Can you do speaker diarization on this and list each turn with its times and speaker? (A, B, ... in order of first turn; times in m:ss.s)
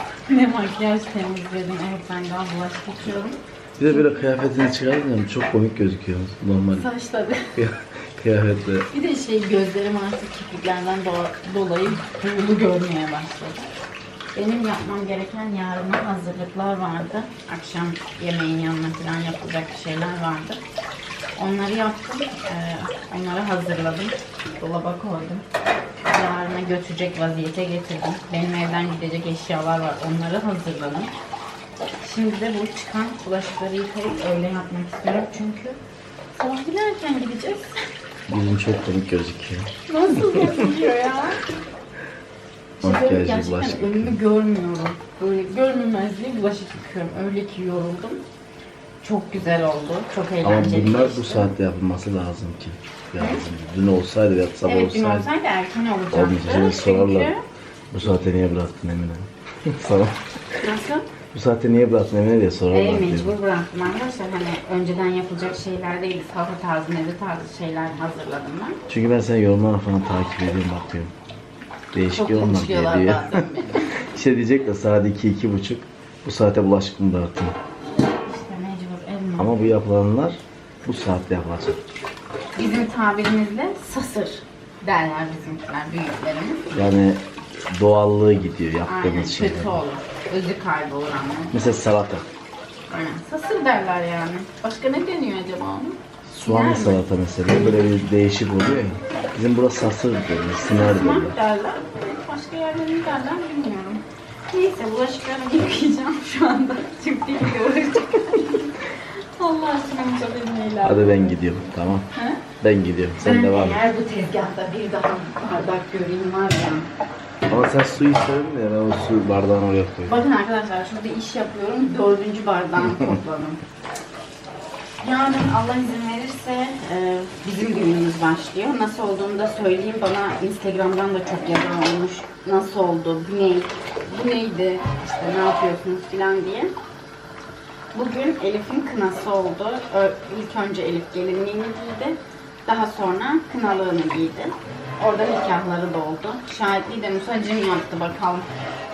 0:00.3-0:04.1 A
0:03.8-0:06.9 B
0:06.7-0:07.5 A
0:07.5-0:08.9 B
0:08.9-0:13.7 A
0:14.3-0:20.6 A
0:21.4-0:25.4 A
0:26.0-0:31.1 A
0:32.0-0:35.8 A
0:36.3-0:37.7 A
0:38.3-0:40.5 B
0:39.9-0:41.4 A
0:42.8-0:44.2 B
0:42.8-0:48.2 A
0:49.0-0:51.5 A
0:50.4-0:55.3 B
0:54.6-0:57.4 A
0:56.1-0:57.3 B
0:57.9-1:00.2 B
1:00.6-1:01.0 A
1:01.3-1:03.3 B
1:02.7-1:08.8 A
1:08.9-1:11.1 B
1:11.9-1:13.4 B
1:12.1-1:13.9 A
1:14.1-1:17.5 B
1:18.2-1:19.5 A
1:19.4-1:21.8 B
1:22.6-1:26.7 A
1:26.7-1:29.7 B
1:28.8-1:31.5 A
1:31.5-1:32.3 B
1:32.9-1:37.0 A
1:36.3-1:41.4 B
1:40.6-1:48.8 A
1:49.4-1:51.4 A
1:50.8-1:52.1 B
1:52.1-1:52.4 A
1:52.6-1:53.8 B
1:53.2-1:56.9 A
1:57.5-2:00.2 B
2:00.1-2:03.6 A
2:02.8-2:03.0 B
2:05.0-2:16.7 A
2:17.9-2:28.5 A